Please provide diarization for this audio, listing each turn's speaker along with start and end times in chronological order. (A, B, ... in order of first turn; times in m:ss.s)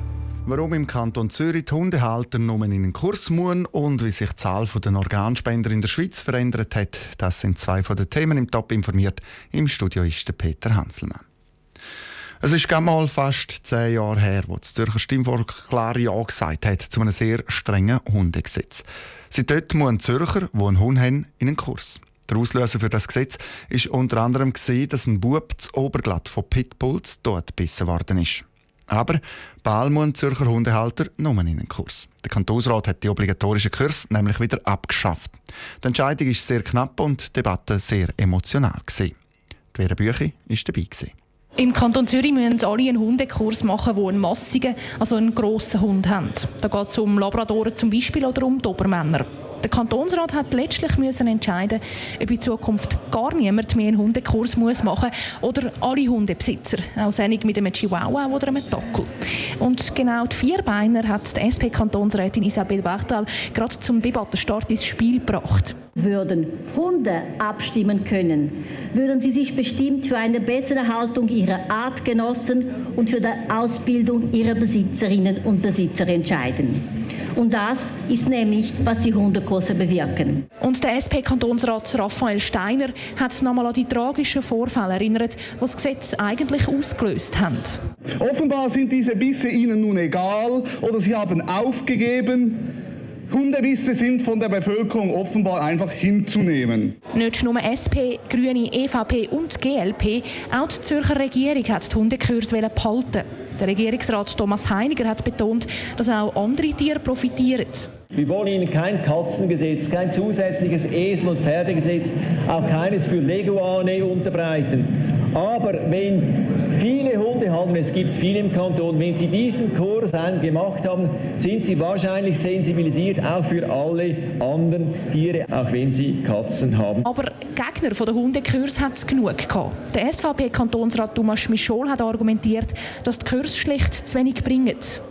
0:00.5-0:11.2 A
0:12.4-0:39.1 A
0:39.7-0:41.1 A
0:41.6-1:05.8 B
1:06.0-1:20.4 C
1:20.6-1:27.8 B
1:28.2-1:32.7 D
1:33.3-1:36.9 D
1:37.1-1:47.9 B
1:48.2-1:54.8 E
1:55.4-1:56.2 E
1:56.8-2:07.0 E
2:07.0-2:15.0 B